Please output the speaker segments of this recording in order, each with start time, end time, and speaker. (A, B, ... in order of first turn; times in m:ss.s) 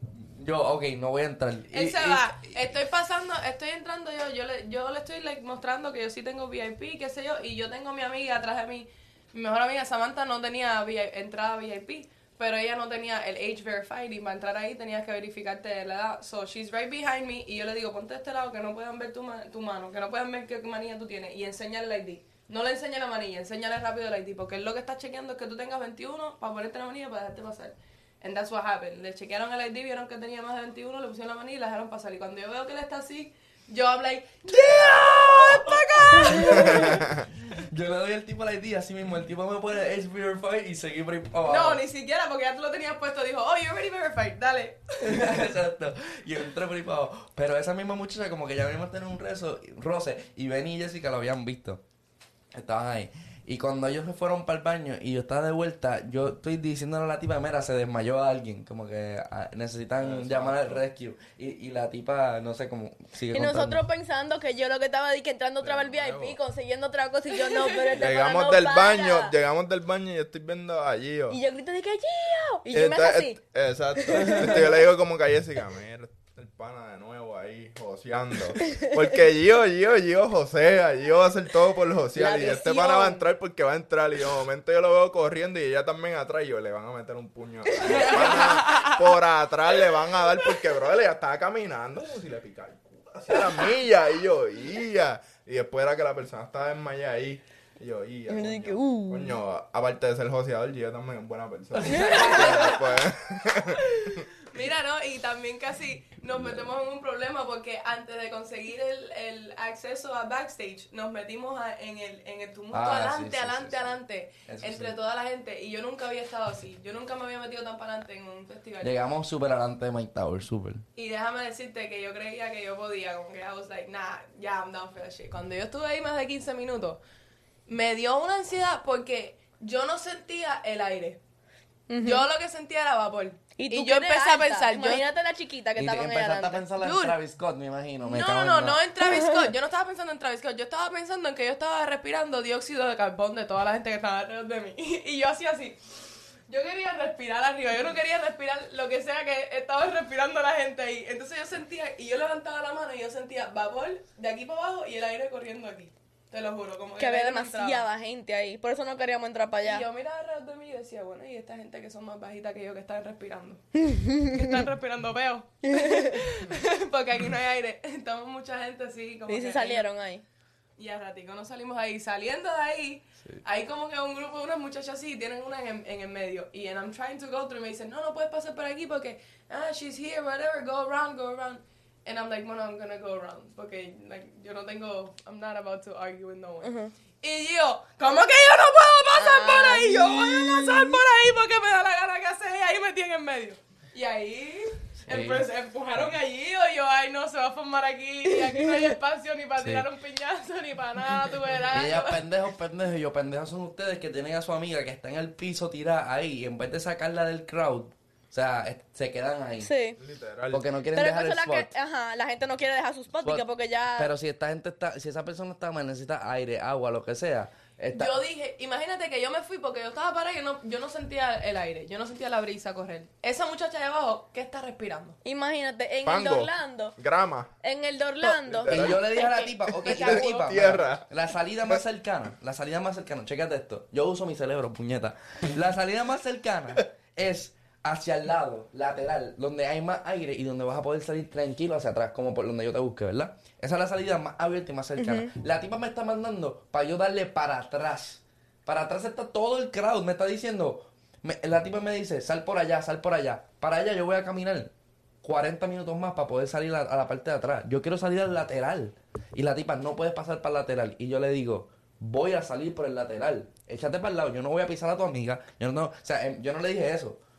0:00.2-0:02.4 A
0:01.7-0:37.1 B
0:34.5-0:41.8 A
0:36.6-0:37.2 C
0:41.4-0:45.4 B
0:45.0-0:51.8 A
0:52.5-1:03.8 A
1:00.0-1:00.8 C
1:03.3-1:09.3 D
1:05.6-1:06.4 C
1:07.9-1:11.4 C
1:11.3-1:13.4 D
1:12.7-1:44.2 C
1:14.0-1:14.8 D
1:22.2-1:23.3 D
1:27.8-1:28.6 A
1:27.9-1:29.0 B
1:38.3-1:39.4 D
1:41.7-1:42.8 A
1:41.9-1:42.8 D
1:42.2-1:42.7 B
1:43.7-1:58.9 B
1:52.7-1:55.0 A
1:58.8-2:00.8 A
2:01.0-2:07.0 B
2:07.7-2:11.2 B
2:11.9-2:12.2 D
2:12.0-2:15.0 B
2:13.6-2:16.6 D
2:15.8-2:18.8 A
2:16.8-2:17.2 B
2:18.0-2:25.8 B
2:19.0-2:19.5 D
2:26.5-2:37.8 B
2:37.0-2:39.8 D
2:39.6-2:43.6 B
2:43.8-2:44.4 D
2:44.2-2:49.9 B
2:45.7-2:46.2 D
2:49.3-2:50.2 D
2:50.8-3:22.2 B
3:06.6-3:06.9 D
3:09.1-3:11.0 D
3:15.0-3:15.5 A
3:19.6-3:19.8 A
3:21.7-3:29.7 A
3:29.6-3:30.0 D
3:30.0-3:30.7 C
3:30.5-3:31.7 A
3:30.9-3:34.1 D
3:33.2-3:38.2 A
3:37.9-3:45.2 B
3:45.2-3:47.0 D
3:46.0-3:47.5 C
3:47.6-3:49.5 D
3:48.2-3:49.2 C
3:48.7-4:14.7 A
3:49.8-3:51.0 C
3:49.8-3:50.4 B
4:05.0-4:05.3 D
4:15.2-4:27.2 A